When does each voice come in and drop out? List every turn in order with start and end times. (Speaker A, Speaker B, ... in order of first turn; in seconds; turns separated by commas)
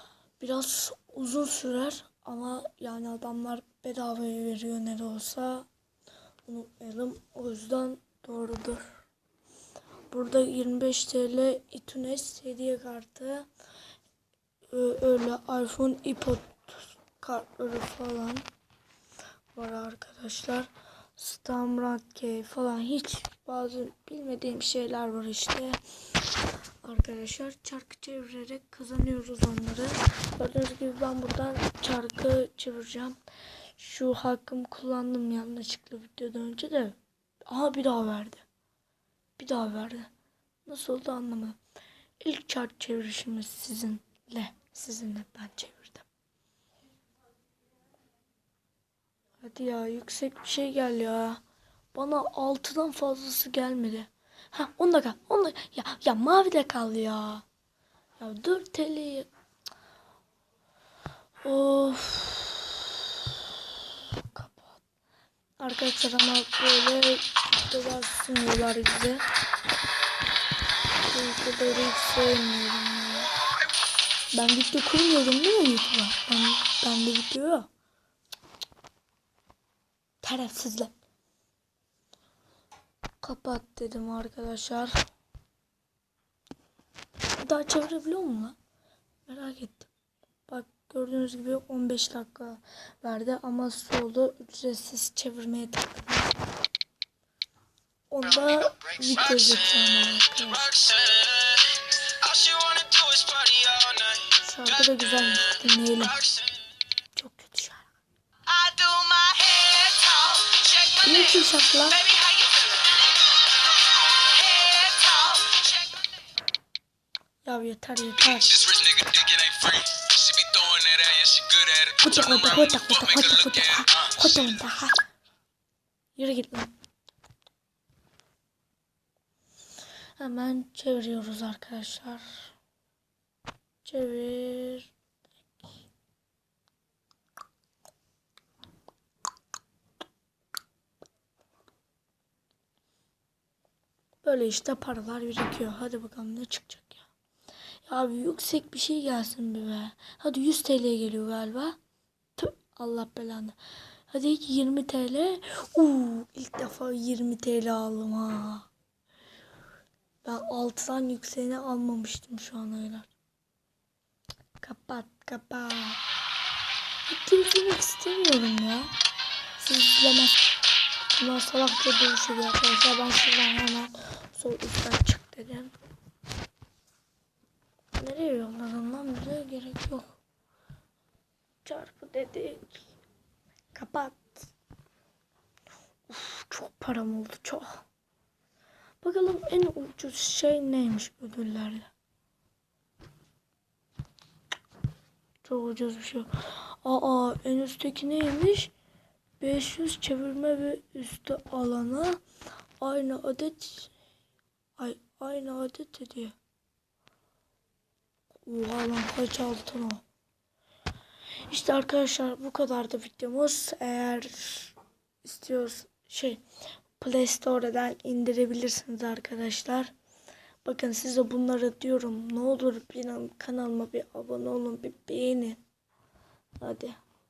Speaker A: 0.4-5.7, Speaker A: 6.5-8.9, Speaker A: 10.1-13.5, Speaker A: 14.7-18.5, Speaker A: 19.6-25.8, Speaker A: 26.8-33.2, Speaker A: 33.8-38.5, Speaker A: 39.4-40.1, Speaker A: 40.7-41.6, Speaker A: 42.2-46.1, Speaker A: 49.4-51.4, Speaker A: 51.9-57.5, Speaker A: 58.2-59.3, Speaker A: 61.4-63.0, Speaker A: 64.3-64.8, Speaker A: 65.6-69.2, Speaker A: 71.0-73.3, Speaker A: 74.3-77.7, Speaker A: 80.2-80.9, Speaker A: 83.2-85.0, Speaker A: 87.4-88.6, Speaker A: 89.3-89.9, Speaker A: 90.5-96.3, Speaker A: 98.1-100.7, Speaker B: 100.7-104.3, Speaker A: 104.4-106.2, Speaker A: 107.1-107.9, Speaker B: 108.5-111.1, Speaker A: 111.0-112.1, Speaker B: 112.0-113.0, Speaker B: 114.2-115.8, Speaker A: 117.4-118.7, Speaker B: 118.6-122.6, Speaker A: 122.0-125.1, Speaker A: 126.2-126.7, Speaker A: 130.2-132.5, Speaker A: 133.8-134.9, Speaker A: 144.2-147.0, Speaker A: 147.8-151.8, Speaker A: 152.4-153.6, Speaker A: 154.1-158.7, Speaker A: 160.2-163.1, Speaker A: 164.6-166.0, Speaker A: 167.1-168.9, Speaker A: 169.6-170.4, Speaker A: 171.1-175.8, Speaker A: 178.0-180.2, Speaker A: 181.6-182.8, Speaker A: 183.7-184.4, Speaker A: 186.1-187.8, Speaker A: 189.0-191.9, Speaker A: 195.4-198.7, Speaker A: 199.4-202.2, Speaker A: 202.8-203.9, Speaker A: 204.8-206.3, Speaker A: 208.4-210.0, Speaker A: 211.5-216.4, Speaker A: 217.0-219.9, Speaker A: 220.6-225.6, Speaker A: 226.6-227.0